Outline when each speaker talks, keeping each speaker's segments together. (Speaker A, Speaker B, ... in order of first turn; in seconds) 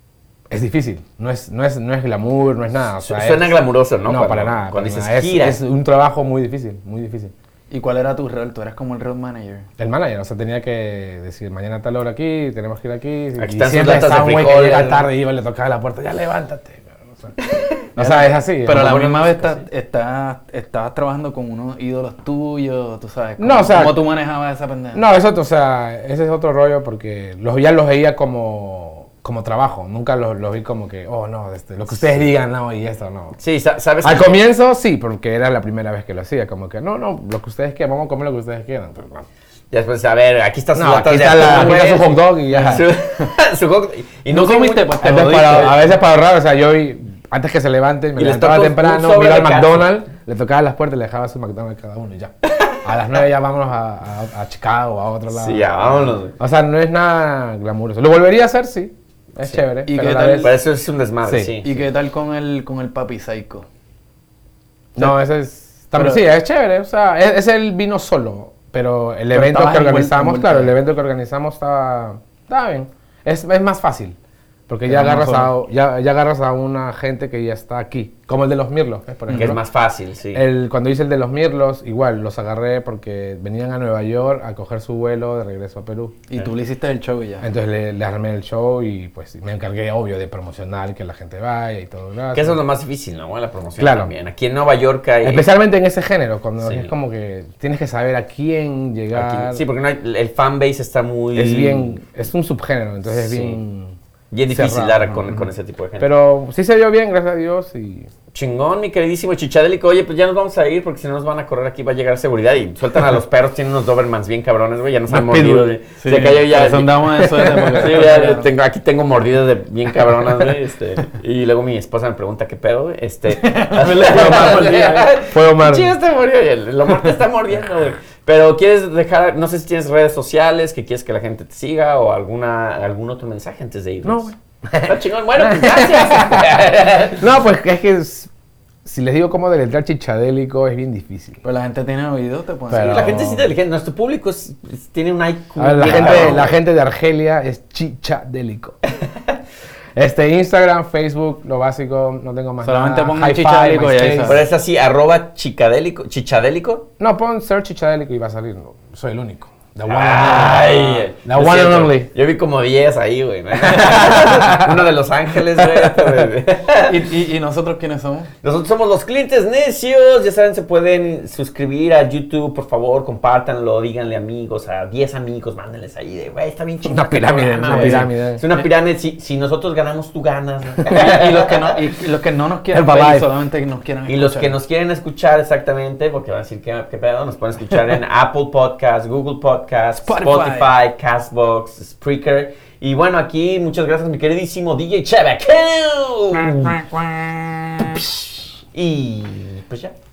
Speaker A: 0.5-7.3, 9.8-17.4, 18.0-19.0, 23.4-24.0, 24.9-33.4, 34.0-39.3, 40.8-42.9, 45.0-60.6, 61.2-61.6, 65.0-74.2, 74.7-79.6, 80.3-86.2, 87.4-92.6, 93.8-94.1, 95.2-99.6, 101.4-104.0, 104.5-105.5, 106.0-108.1, 115.1-115.8, 117.2-117.8, 124.0-125.9, 134.0-138.3, 138.8-141.4, 142.7-143.5, 145.6-148.8, 149.9-154.4, 157.0-162.1, 163.6-164.8, 176.9-178.4, 182.7-183.3
Speaker B: 3.0-5.6, 13.4-15.1, 17.4-17.7, 18.7-19.6, 31.9-32.2, 33.4-34.4, 39.7-45.8, 48.2-50.0, 52.5-52.8, 55.3-56.4, 60.4-61.8, 79.3-80.4, 92.3-95.5, 96.6-96.9, 99.1-102.0, 103.1-103.6, 104.3-106.1, 108.3-117.1, 117.6-134.3, 134.8-137.3, 142.8-146.6, 154.2-156.9, 159.9-167.0, 168.4-181.5, 184.1-199.9
Speaker C: 7.7-9.7, 18.0-25.0, 42.5-43.3, 44.3-45.8, 59.9-60.6, 61.6-63.7, 66.0-66.2, 69.3-70.8, 74.9-75.5, 79.3-79.6, 86.3-87.5, 116.0-118.5, 123.4-125.1, 141.4-143.3, 145.9-146.4, 152.6-154.4, 166.9-168.3, 177.7-178.6, 180.9-184.5, 190.0-190.7